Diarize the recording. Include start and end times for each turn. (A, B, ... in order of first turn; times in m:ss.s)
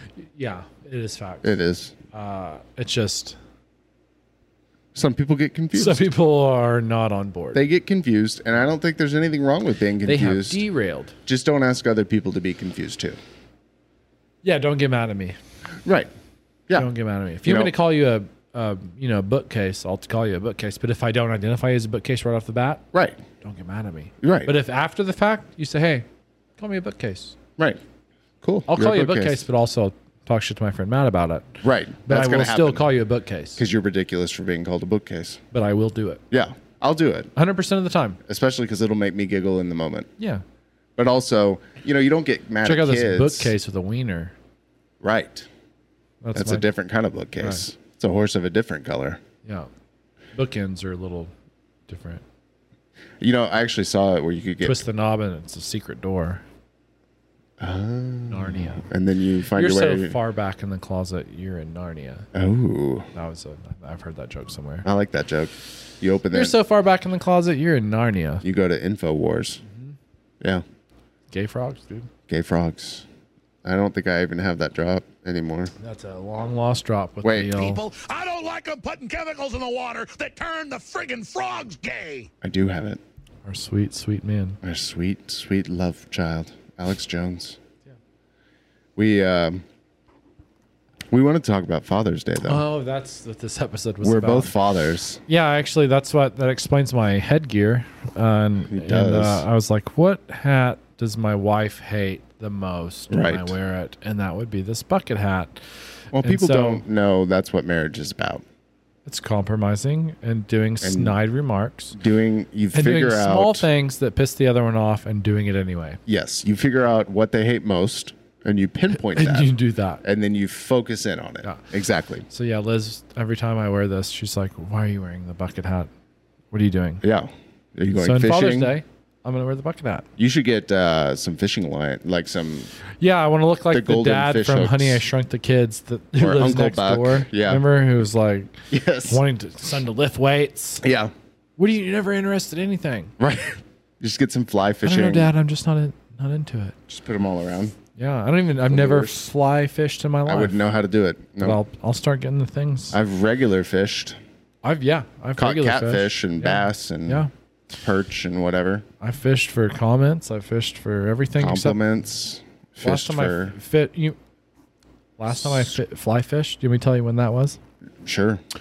0:00.2-0:01.6 A
0:01.4-0:02.0 B
0:02.1-0:03.4 A
0:04.9-0:06.1 B
0:05.7-0:07.6 A
0:07.5-0:10.6 B
0:10.0-0:11.2 A
0:11.3-0:13.2 B
0:14.4-0:15.4 A
0:15.8-0:16.1 B
0:16.8-0:22.8 A
0:17.4-0:17.8 B
0:22.9-0:23.2 B
0:23.4-0:26.1 A
0:24.2-0:24.6 B
0:26.6-0:27.4 A
0:28.4-0:29.4 B
0:28.7-0:33.6 A
0:31.6-0:32.9 B
0:33.6-0:35.4 B
0:35.5-0:36.2 A
0:36.3-0:37.3 B
0:37.4-0:38.2 A
0:38.3-0:40.1 B
0:41.0-0:43.5 B
0:42.6-0:44.3 A
0:45.0-0:45.5 B
0:46.2-0:46.7 A
0:46.3-0:49.2 B
0:47.4-0:47.6 A
0:49.4-0:49.7 A
0:50.4-0:51.3 A
0:51.9-0:52.2 A
0:53.2-0:54.8 B
0:54.6-0:56.4 A
0:57.6-1:00.2 B
0:58.3-0:58.9 A
0:59.5-1:02.3 A
1:02.3-1:03.1 B
1:03.1-1:04.9 A
1:04.8-1:06.6 B
1:06.3-1:08.4 A
1:08.4-1:09.6 B
1:09.6-1:10.0 A
1:11.3-1:12.1 A
1:12.3-1:13.1 B
1:13.6-1:15.7 B
1:15.8-1:17.8 A
1:17.2-1:17.6 B
1:17.5-1:22.3 C
1:22.4-1:23.0 B
1:23.5-1:24.6 A
1:24.6-1:27.6 B
1:29.0-1:29.6 B
1:31.1-1:32.6 B
1:32.4-1:34.5 A
1:34.0-1:35.2 B
1:35.3-1:45.7 A
1:38.7-1:39.4 B
1:43.1-1:43.6 B
1:46.1-1:48.4 B
1:46.2-1:46.8 A
1:49.1-1:52.0 A
1:50.8-1:51.2 B
1:51.9-1:53.7 B
1:52.7-1:56.0 A
1:56.1-1:59.5 B
1:58.9-2:00.0 A
2:00.0-2:02.3 B
2:02.3-2:05.9 A
2:06.5-2:07.0 A
2:07.0-2:08.8 B
2:07.9-2:10.1 A
2:10.2-2:12.7 B
2:13.0-2:20.8 A
2:13.7-2:15.0 B
2:16.2-2:17.7 B
2:18.7-2:19.2 B
2:20.8-2:21.1 B
2:21.6-2:23.1 A
2:23.2-2:25.3 B
2:24.8-2:26.8 A
2:26.9-2:27.8 B
2:28.0-2:30.6 A
2:28.7-2:29.3 B
2:30.3-2:31.6 B
2:31.4-2:33.0 A
2:32.9-2:34.2 B
2:34.6-2:37.3 A
2:35.4-2:37.3 B
2:37.8-2:38.8 B
2:39.0-2:41.8 A
2:41.4-2:43.6 B
2:42.8-2:44.2 A
2:45.2-2:47.6 A
2:45.3-2:45.7 B
2:48.0-2:48.4 B